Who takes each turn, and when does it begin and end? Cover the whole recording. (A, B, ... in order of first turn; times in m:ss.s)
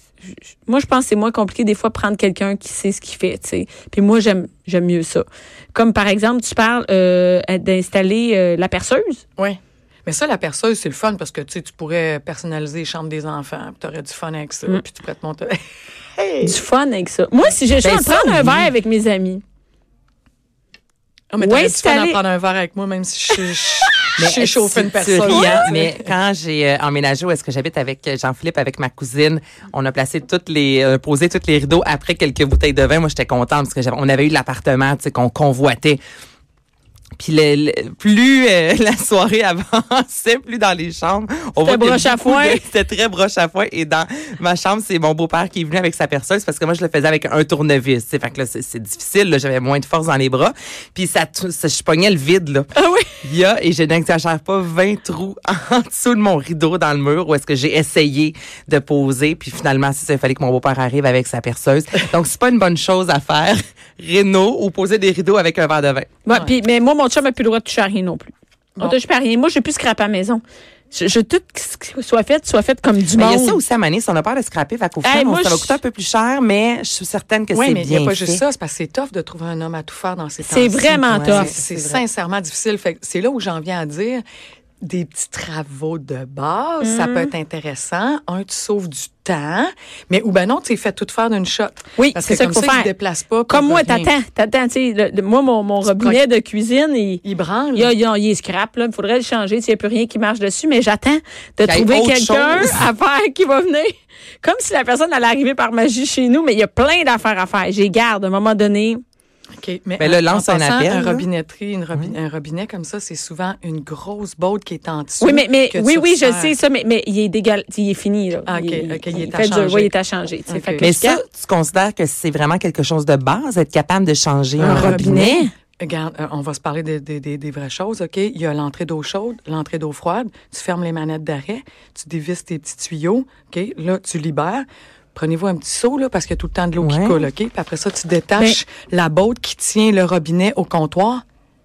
0:00.6-0:09.2 A
0:09.4-0:15.6 B
0:16.2-0:16.6 B
0:16.4-0:19.4 A
0:17.8-0:18.7 C
0:21.3-0:26.0 B
0:21.4-0:22.2 A
0:24.2-0:36.0 C
0:25.3-0:25.7 A
0:37.2-1:06.1 C
0:41.6-0:42.6 A
0:52.7-0:53.1 A
1:06.2-1:13.6 A
1:13.1-1:18.4 C
1:15.0-1:15.8 A
1:17.5-1:24.2 B
1:20.4-1:21.5 A
1:21.0-1:22.0 C
1:24.8-1:34.1 B
1:26.8-1:27.3 A
1:32.0-1:32.9 A
1:33.5-1:37.2 A
1:35.8-1:36.2 B
1:37.2-1:37.9 B
1:37.7-1:49.0 A
1:41.6-1:42.8 C
1:49.6-1:56.5 B
1:50.0-1:51.3 C
1:55.2-2:01.2 A
1:58.5-1:59.9 B
2:00.5-2:00.8 B
2:00.8-2:05.4 C
2:04.6-2:21.2 B
2:04.6-2:05.5 A
2:16.8-2:17.3 C